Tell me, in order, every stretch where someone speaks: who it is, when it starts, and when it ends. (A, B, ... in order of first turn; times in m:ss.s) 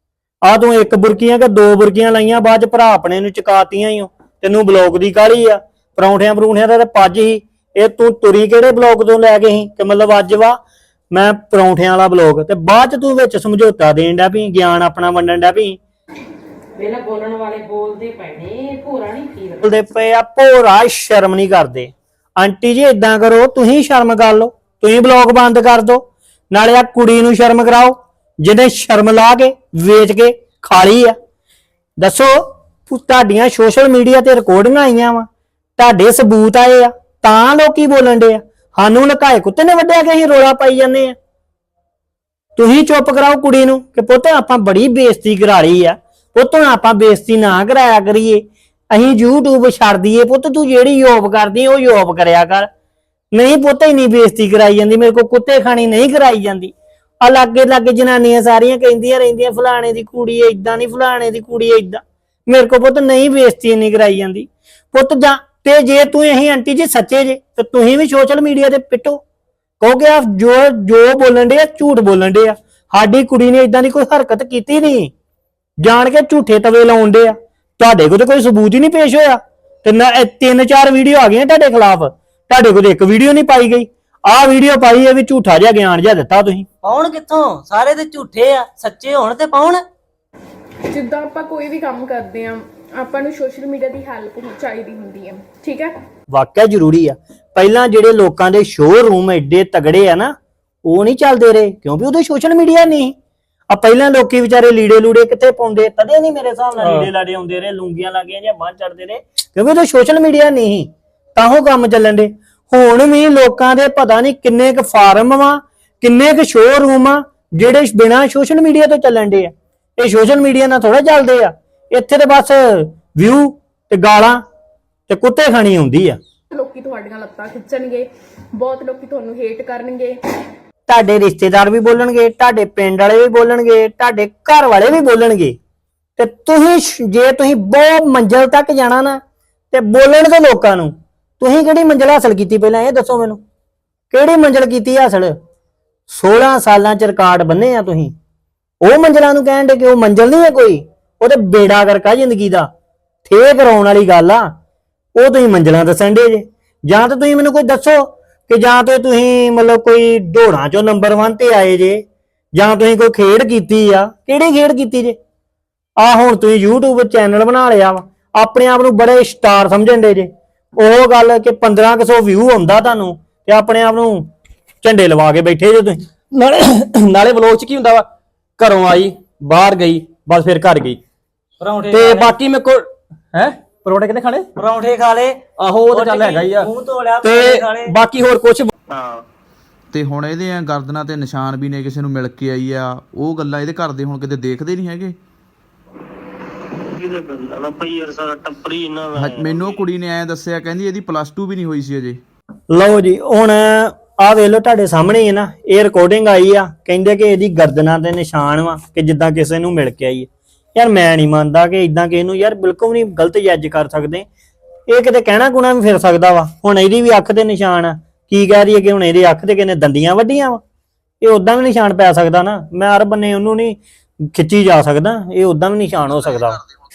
0:00.4-0:10.6 A
0:11.1-0:15.8 A
0:16.8-0:19.6 B
0:19.6-0:31.1 A
0:32.0-0:35.2 A
0:35.8-0:41.1 A
0:42.6-0:52.7 A
0:53.3-1:09.2 A
1:09.8-1:15.1 A
1:15.8-1:26.6 A
1:26.8-1:29.8 C
1:30.8-1:35.9 D
1:36.3-1:40.3 A
1:40.8-1:43.1 A
1:43.7-2:04.4 A
1:46.8-1:47.1 E
2:05.1-2:06.2 A
2:06.5-2:10.2 D
2:10.9-2:15.6 A
2:16.2-2:19.2 A
2:19.7-2:23.4 A
2:24.1-2:25.3 A
2:26.1-2:28.1 A
2:28.8-2:32.7 A
2:33.2-2:34.5 A
2:35.1-2:42.0 A
2:42.5-2:45.2 A
2:46.0-2:54.3 A
2:54.8-2:56.0 A
2:56.3-2:58.0 E
2:58.6-3:01.0 E
3:01.6-3:02.4 C
3:01.9-3:04.5 E
3:04.6-3:07.9 C
3:05.6-3:06.7 E
3:07.2-3:08.7 E
3:08.9-3:09.2 F
3:09.9-3:15.2 G
3:16.9-3:19.9 F
3:19.1-3:22.2 G
3:22.7-3:34.2 A
3:34.9-3:40.6 A
3:41.2-3:43.8 A
3:44.3-3:46.6 A